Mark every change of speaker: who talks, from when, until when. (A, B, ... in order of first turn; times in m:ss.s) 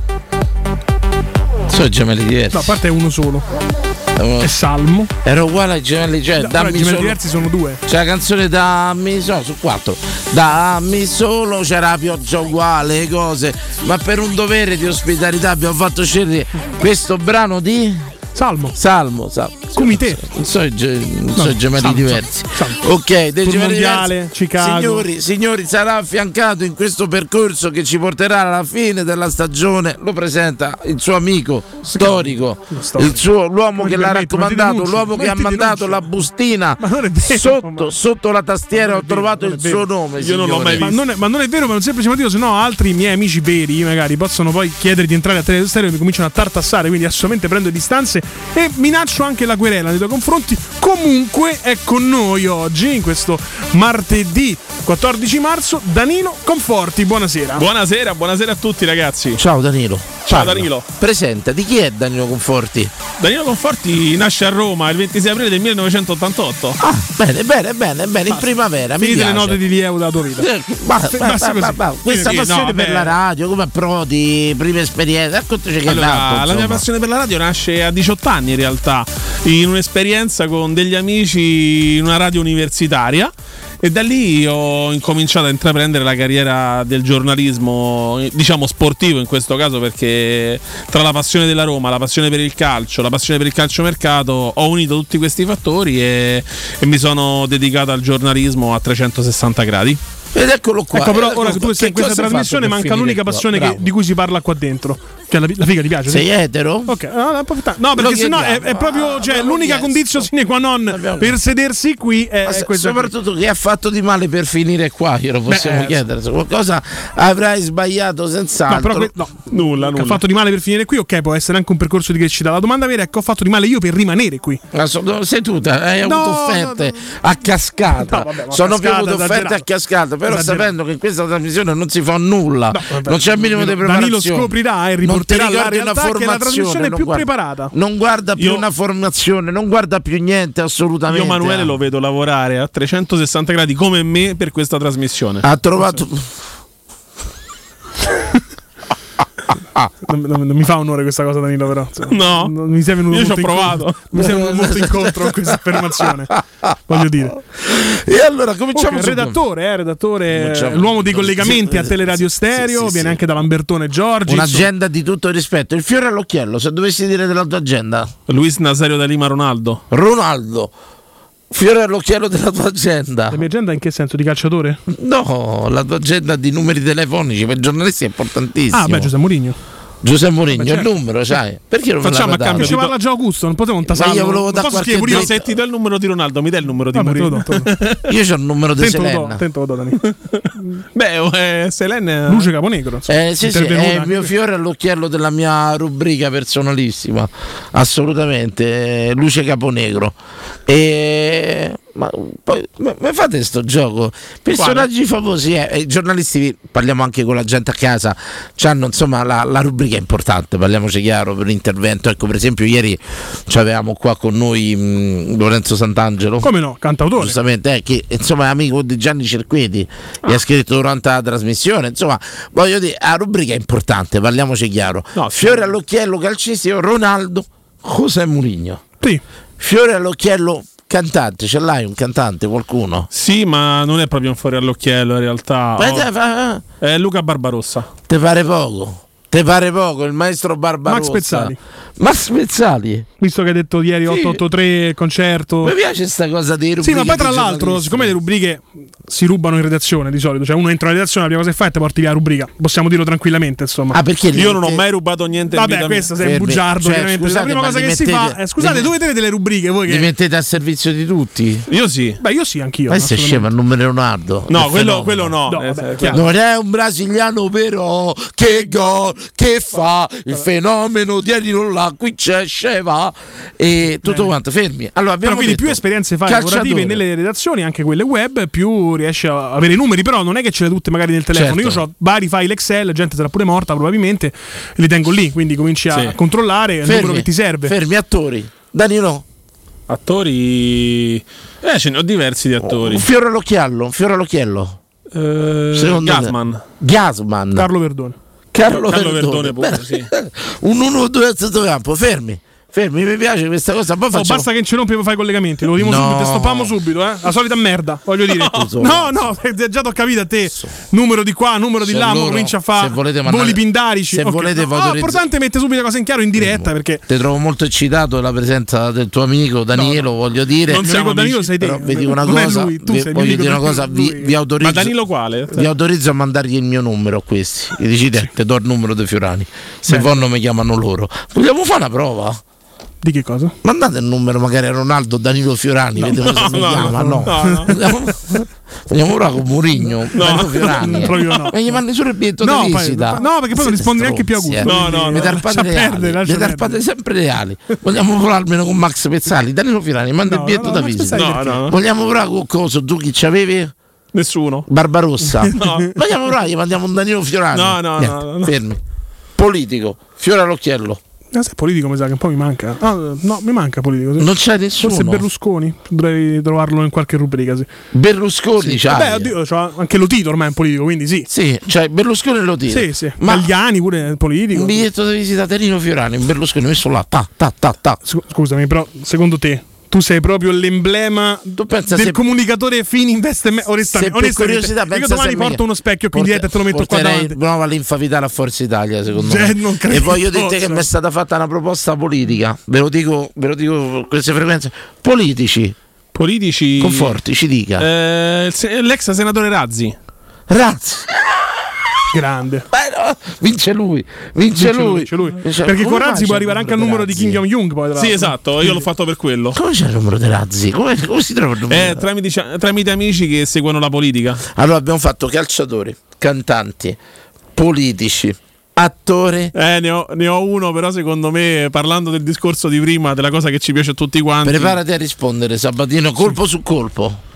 0:01.7-0:02.7 A
0:02.5-0:03.4 B
0:04.2-0:04.5 A
0:04.4-0:05.1 B
0:05.2-0:07.2 A
0:06.4-0:07.8 B
0:07.9-0:18.1 A
0:18.4-0:18.8 B
0:18.8-0:40.9 A
0:19.8-0:20.3 B
0:21.4-0:22.8 B
0:23.4-0:25.0 B
0:32.0-0:33.2 B
0:33.8-0:36.1 B
0:36.8-0:37.9 B
0:38.7-0:39.8 B
0:40.2-0:41.0 C
0:40.8-0:57.6 B
0:57.6-0:59.4 C
0:59.4-1:02.9 A
1:00.3-1:00.9 C
1:03.2-1:06.8 C
1:06.8-1:09.6 A
1:08.3-1:10.5 B
1:10.4-1:16.8 A
1:11.1-1:13.2 B
1:12.3-1:12.7 C
1:15.8-1:40.0 C
1:40.4-1:43.9 A
1:40.9-1:46.3 B
1:46.1-1:46.9 A
1:46.9-1:53.1 B
1:47.9-1:50.3 A
1:50.9-1:51.4 A
1:52.5-1:59.1 A
1:55.5-1:56.0 B
1:58.7-2:04.6 B
1:59.5-2:00.2 C
2:04.7-2:21.8 A
2:06.0-2:06.9 B
2:07.9-2:09.6 B
2:10.3-2:10.7 B
2:12.7-2:17.7 B
2:18.4-2:18.6 C
2:21.1-2:25.4 C
2:25.4-2:26.3 A
2:30.1-2:36.3 B
2:32.1-2:32.5 C
2:33.1-2:34.1 C
2:34.1-2:39.4 A
2:36.9-2:37.4 B
2:38.7-2:44.7 B
2:40.3-2:43.2 A
2:44.3-2:48.1 A
2:48.3-2:49.8 C
2:49.9-2:50.7 A
2:51.5-2:53.4 A
2:53.3-2:54.8 B
2:54.9-2:59.1 A
2:58.7-2:59.6 B
3:00.0-3:02.8 A
3:00.5-3:00.9 B
3:02.0-3:02.9 C
3:02.5-3:05.3 B
3:03.9-3:05.4 A
3:05.0-3:08.0 C
3:07.0-3:07.7 B
3:08.1-3:09.4 A
3:08.8-3:10.0 B
3:11.0-3:12.5 C
3:12.3-3:14.3 B
3:13.1-3:36.5 A
3:36.4-3:37.4 B
3:37.2-3:48.8 A
3:45.2-3:45.7 C
3:49.6-3:53.1 A
3:53.1-3:56.1 C
3:55.8-3:56.6 A
3:56.8-3:57.9 C
3:58.1-4:03.1 A
4:00.9-4:01.6 B
4:03.2-4:05.7 B
4:04.1-4:04.4 A
4:05.6-4:08.2 A
4:06.8-4:14.0 B
4:13.9-4:14.8 A
4:14.3-4:16.1 C
4:15.6-4:20.1 B
4:16.2-4:18.9 A
4:19.9-4:21.7 A
4:21.7-4:22.2 C
4:22.2-4:23.5 B
4:22.9-4:25.3 A
4:24.5-4:26.2 C
4:25.5-4:26.2 B
4:26.1-4:37.0 A
4:34.0-4:34.3 B
4:35.2-4:47.7 B
4:41.3-4:41.8 A
4:46.8-4:49.2 A
4:49.9-4:53.1 C
4:52.6-4:54.8 A
4:55.1-4:56.6 C
4:55.7-4:57.7 A
4:57.6-4:58.2 B
4:58.5-5:04.5 A
4:58.6-5:00.1 C
5:04.1-5:17.0 B
5:05.8-5:06.7 A
5:08.4-5:09.3 A
5:11.8-5:15.2 A
5:16.4-5:20.9 A
5:19.8-5:20.0 B
5:20.7-5:21.5 C
5:20.8-5:24.3 B
5:21.6-5:24.9 A
5:24.6-5:25.7 C
5:25.5-5:32.4 A
5:29.9-5:30.2 B
5:33.0-5:33.6 B
5:33.6-5:53.7 A
5:36.0-5:37.7 B
5:36.2-5:37.7 C
5:40.1-5:41.3 C
5:40.2-5:41.6 B
5:42.4-5:46.8 B
5:44.6-5:45.3 C
5:50.2-5:51.6 B
5:51.1-5:51.8 C
5:54.1-5:54.7 C
5:54.7-5:58.8 A
5:55.6-5:55.9 C
5:57.5-5:58.5 C
5:59.4-6:01.0 A
6:01.3-6:04.3 B
6:04.2-6:05.2 A
6:04.8-6:07.7 B
6:07.9-6:09.3 A
6:08.6-6:11.3 B
6:11.3-6:13.5 A
6:12.7-6:14.8 B
6:14.5-6:18.0 A
6:18.0-6:27.4 B
6:21.6-6:22.2 A
6:23.9-6:35.8 A
6:29.2-6:30.9 B
6:36.2-6:37.1 C
6:36.8-6:37.9 A
6:37.8-6:40.0 C
6:40.5-6:41.1 A
6:42.1-6:42.7 B
6:42.7-6:47.4 A
6:44.6-6:48.7 B
6:48.0-6:49.6 C
6:49.5-6:52.0 A
6:51.7-6:54.4 C
6:54.5-6:57.0 A
6:57.6-6:59.5 A
6:59.6-7:04.8 C
7:04.4-7:07.2 A